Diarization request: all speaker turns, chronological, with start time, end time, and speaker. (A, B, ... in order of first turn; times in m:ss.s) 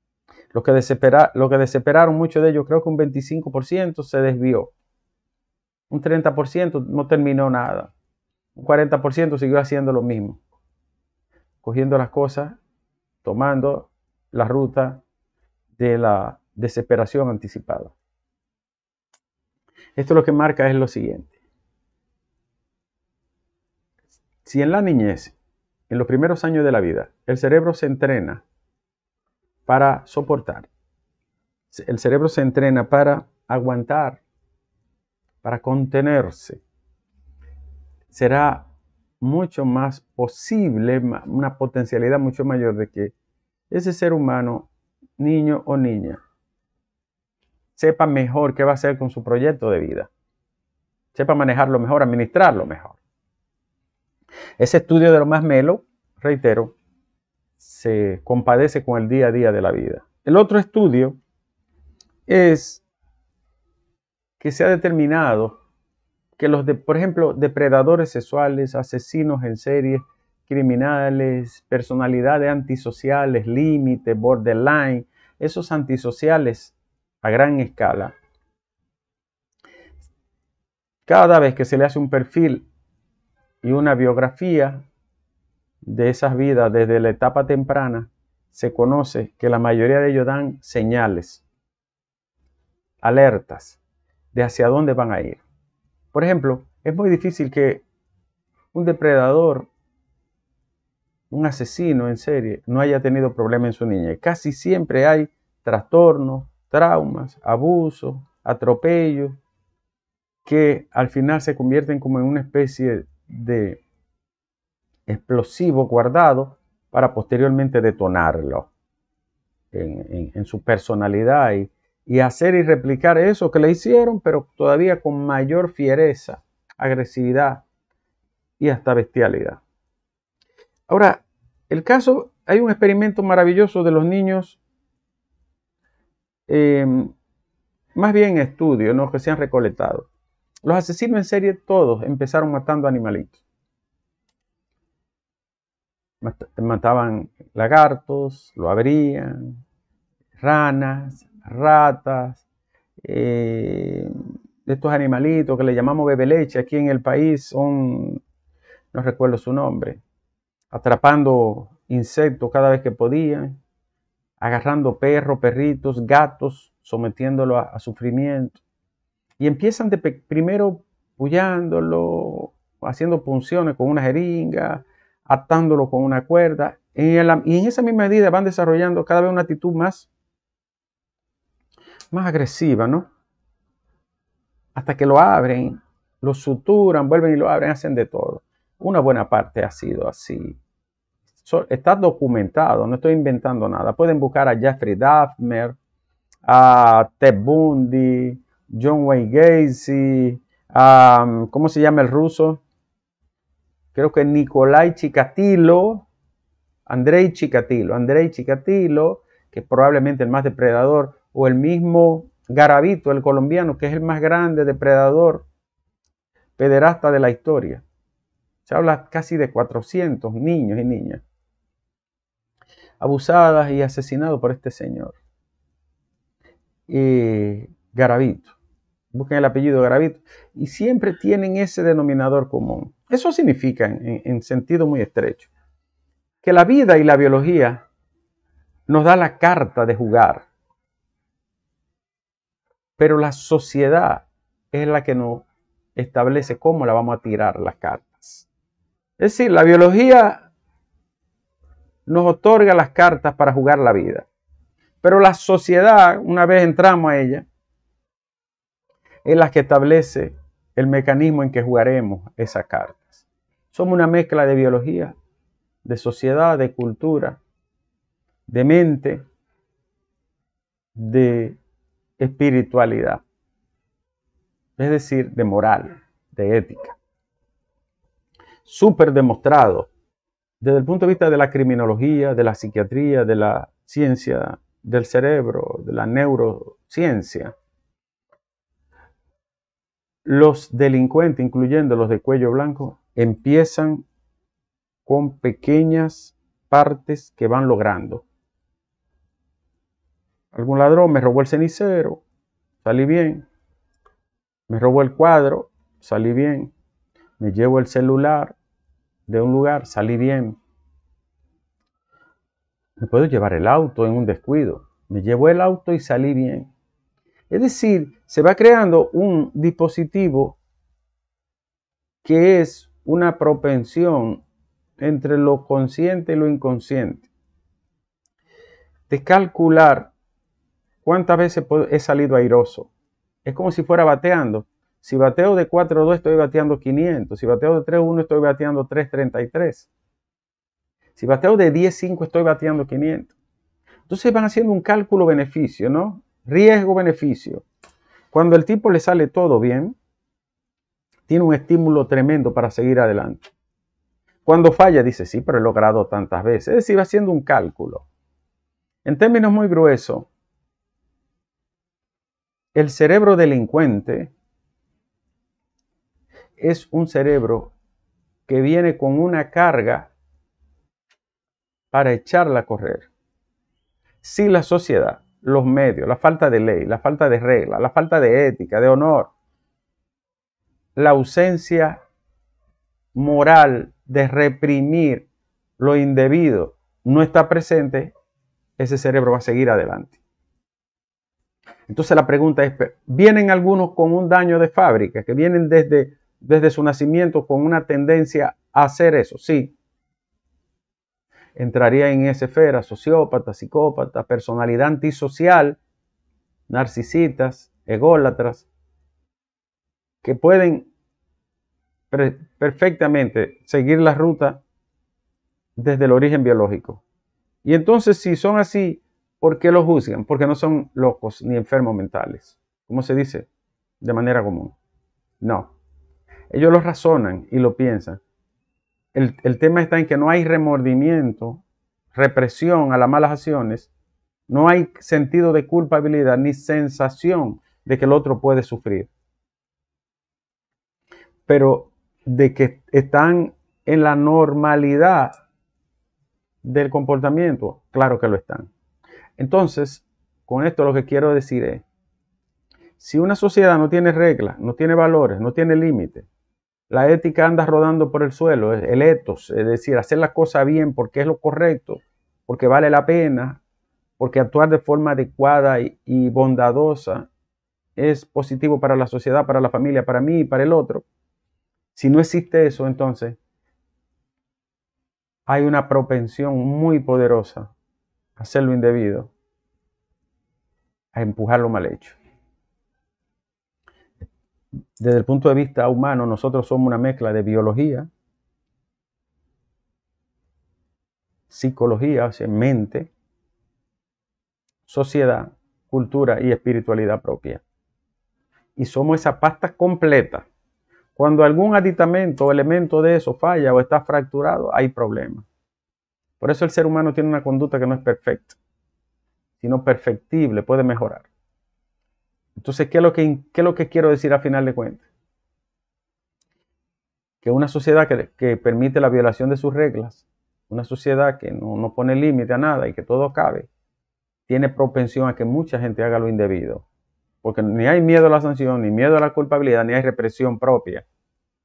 0:00.5-0:04.7 A
0:05.9-0:07.9 A
0:08.6-0:10.4 A
0:11.6-0:12.6 A
0:13.2-0:15.0 A
0:15.8-0:18.0 A
0:20.0-0:21.3 A
0:24.4-0:25.4 A
0:25.9-0:28.4 A
0:29.7-0:30.7 A
0:31.7-0:34.2 A
0:35.4-0:36.6 A
0:38.1-0:38.7 A
0:39.2-0:43.1 A
0:43.7-0:46.2 A
0:47.8-0:50.1 A
0:51.1-0:53.0 A
0:54.6-0:56.8 A
0:57.6-1:01.2 A
1:02.3-1:02.8 A
1:04.4-1:05.6 A
1:06.4-1:18.1 A
1:21.1-1:22.7 A
1:23.6-1:24.8 A
1:25.8-1:31.4 A
1:33.0-1:33.8 A
1:34.3-1:35.4 A
1:36.1-1:37.8 A
1:38.7-1:39.7 A
1:41.3-1:49.4 A
1:50.5-1:53.8 A
1:55.1-1:58.7 A
1:59.7-2:07.6 A
2:08.6-2:09.6 A
2:10.9-2:14.6 A
2:16.5-2:17.1 A
2:18.0-2:20.1 A
2:20.6-2:23.4 A
2:26.2-2:29.6 A
2:30.4-2:32.4 A
2:33.0-2:38.2 A
2:38.9-2:40.0 A
2:40.7-2:43.6 A
2:44.4-2:48.6 A
2:49.4-3:00.1 A
3:02.1-3:03.1 A
3:04.8-3:10.6 A
3:11.4-3:15.8 A
3:16.5-3:22.6 A
3:23.9-3:26.1 A
3:26.9-3:35.5 A
3:36.6-3:37.8 A
3:38.7-3:41.2 A
3:43.0-3:45.2 A
3:46.9-3:48.6 A
3:49.1-3:55.5 A
3:56.4-3:57.8 A
3:58.9-4:00.5 A
4:03.0-4:05.4 A
4:06.0-4:08.5 A
4:09.2-4:10.5 A
4:12.1-4:14.3 A
4:15.0-4:17.4 A
4:19.3-4:25.2 A
4:25.8-4:27.4 A
4:28.5-4:29.2 A
4:31.0-4:31.6 A
4:32.2-4:33.2 A
4:34.8-4:37.0 A
4:38.7-4:39.9 A
4:40.6-4:47.6 A
4:50.2-4:54.0 A
4:55.1-4:58.2 A
5:00.5-5:02.2 A
5:02.8-5:03.5 A
5:04.7-5:06.7 A
5:07.4-5:08.6 A
5:09.3-5:10.6 A
5:13.0-5:16.7 A
5:17.5-5:20.6 A
5:22.2-5:24.4 A
5:25.0-5:27.3 A
5:29.1-5:30.1 A
5:31.0-5:32.9 A
5:33.4-5:39.9 A
5:41.2-5:43.3 A
5:44.1-5:47.6 A
5:48.3-5:50.0 A
5:51.3-5:53.5 A
5:54.4-5:58.1 A
5:59.0-6:00.3 A
6:02.8-6:04.3 A
6:06.6-6:07.7 A
6:08.5-6:10.1 A
6:11.9-6:13.1 A
6:14.2-6:19.3 A
6:21.0-6:22.0 A
6:23.2-6:25.3 A
6:25.8-6:28.1 A
6:28.8-6:30.2 A
6:31.9-6:39.8 A
6:41.6-6:45.8 A
6:46.7-6:48.7 A
6:50.2-6:50.9 A
6:52.1-6:54.6 A
6:55.8-6:57.0 A
6:57.6-7:03.5 A
7:04.0-7:04.8 A
7:05.4-7:05.7 A
7:06.5-7:08.2 A
7:09.2-7:11.6 A
7:12.1-7:13.9 A
7:14.5-7:19.1 A
7:21.5-7:25.4 A
7:26.6-7:28.7 A
7:29.4-7:31.9 A
7:33.0-7:36.3 A
7:36.9-7:43.6 A
7:44.2-7:47.3 A
7:48.0-7:51.1 A
7:52.0-7:53.4 A
7:55.5-7:57.7 A
7:58.4-7:59.3 A
8:01.1-8:02.2 A
8:05.0-8:08.1 A
8:11.5-8:13.1 A
8:14.9-8:17.6 A
8:18.8-8:20.5 A
8:21.2-8:25.5 A
8:26.4-8:28.6 A
8:29.6-8:31.3 A
8:32.6-8:35.1 A
8:37.4-8:43.7 A
8:44.5-8:46.8 A
8:47.4-8:51.1 A